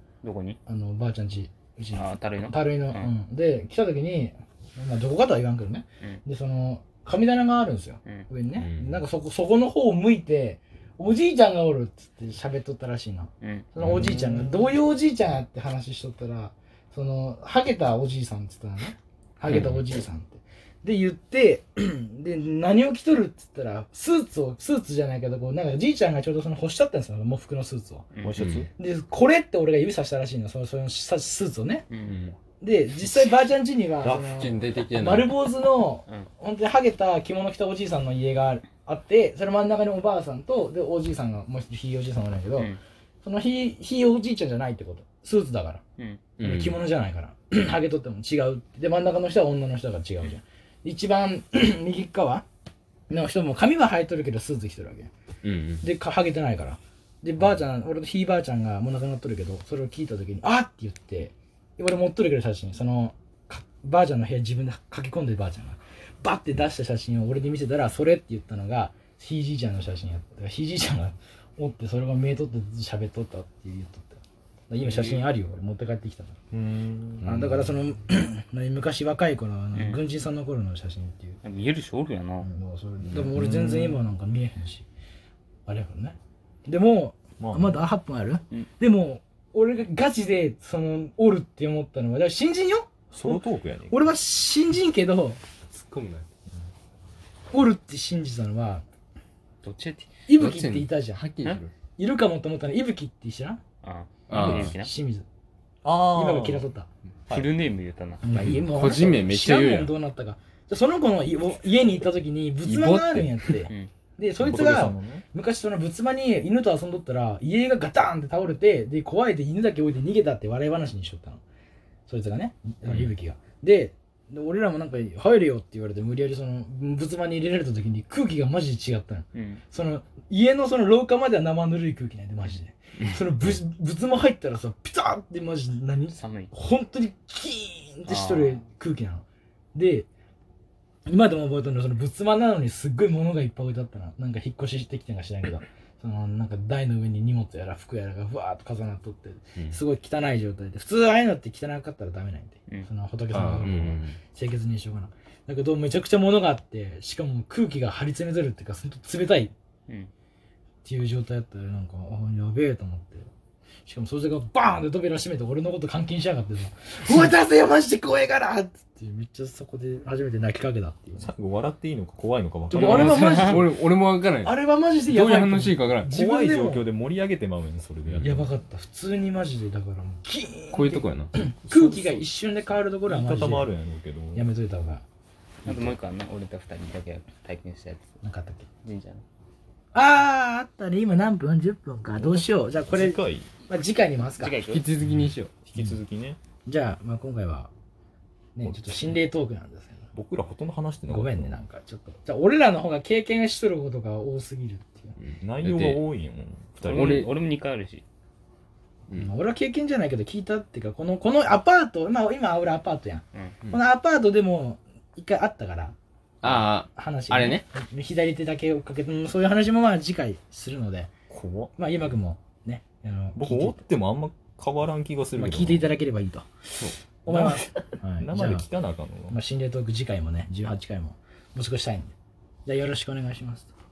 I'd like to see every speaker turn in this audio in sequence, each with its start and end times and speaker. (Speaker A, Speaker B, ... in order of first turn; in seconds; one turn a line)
Speaker A: 0.2-0.6
Speaker B: 0.7-28.1
Speaker A: 1.9-3.1
Speaker C: 8.6-9.0
Speaker A: 13.4-13.7
Speaker D: 13.8-14.7
Speaker A: 28.1-28.4
Speaker D: 28.2-28.7
Speaker C: 28.4-28.6
Speaker B: 28.8-31.8
Speaker A: 31.9-32.2
Speaker C: 32.0-32.3
Speaker B: 32.6-45.8
Speaker C: 34.0-35.4
Speaker C: 46.4-46.8
Speaker B: 46.4-52.4
Speaker B: 53.1-55.1
Speaker C: 55.4-55.8
Speaker B: 55.8-76.4
Speaker D: 76.5-77.6
Speaker B: 77.2-81.4
Speaker A: 79.8-80.0
Speaker A: 81.4-82.5
Speaker B: 82.4-84.8
Speaker D: 83.1-84.0
Speaker B: 85.7-95.4
Speaker D: 87.4-87.8
Speaker D: 93.1-94.1
Speaker C: 95.7-96.3
Speaker B: 97.5-98.8
Speaker A: 99.6-100.1
Speaker B: 100.3-101.2
Speaker C: 100.3-101.7
Speaker B: 102.0-103.6
Speaker A: 103.8-104.9
Speaker C: 104.3-104.7
Speaker B: 104.3-105.2
Speaker D: 105.8-106.7
Speaker B: 106.1-106.9
Speaker A: 107.3-108.2
Speaker B: 108.2-121.4
Speaker C: 108.4-109.9
Speaker C: 112.7-113.3
Speaker D: 114.4-115.2
Speaker B: 122.1-140.1
Speaker A: 129.3-129.6
Speaker A: 136.1-136.5
Speaker A: 138.1-138.6
Speaker B: 141.1-159.5
Speaker C: 153.3-154.2
Speaker B: 160.8-163.3
Speaker B: 163.8-171.3
Speaker D: 171.2-173.4
Speaker B: 172.7-173.8
Speaker C: 172.8-176.1
Speaker B: 174.4-176.9
Speaker D: 176.1-178.5
Speaker B: 178.2-183.7
Speaker C: 180.7-181.3
Speaker D: 181.6-182.2
Speaker D: 183.1-184.5
Speaker B: 184.3-185.0
Speaker A: 185.6-188.2
Speaker B: 188.2-188.7
Speaker A: 188.8-189.2
Speaker B: 189.9-194.6
Speaker D: 192.2-193.5
Speaker A: 194.4-194.9
Speaker C: 194.6-195.5
Speaker D: 195.0-196.4
Speaker B: 196.6-197.7
Speaker B: 198.5-200.1
Speaker D: 198.6-199.2
Speaker D: 200.1-201.6
Speaker B: 201.1-205.2
Speaker C: 205.2-206.0
Speaker D: 205.4-207.3
Speaker A: 206.8-208.0
Speaker C: 206.9-207.3
Speaker B: 209.2-221.1
Speaker C: 216.4-217.7
Speaker D: 221.3-221.7
Speaker B: 221.8-223.8
Speaker D: 223.3-225.9
Speaker B: 225.3-226.5
Speaker B: 227.2-228.7
Speaker D: 227.3-229.4
Speaker B: 229.3-232.1
Speaker B: 232.7-233.7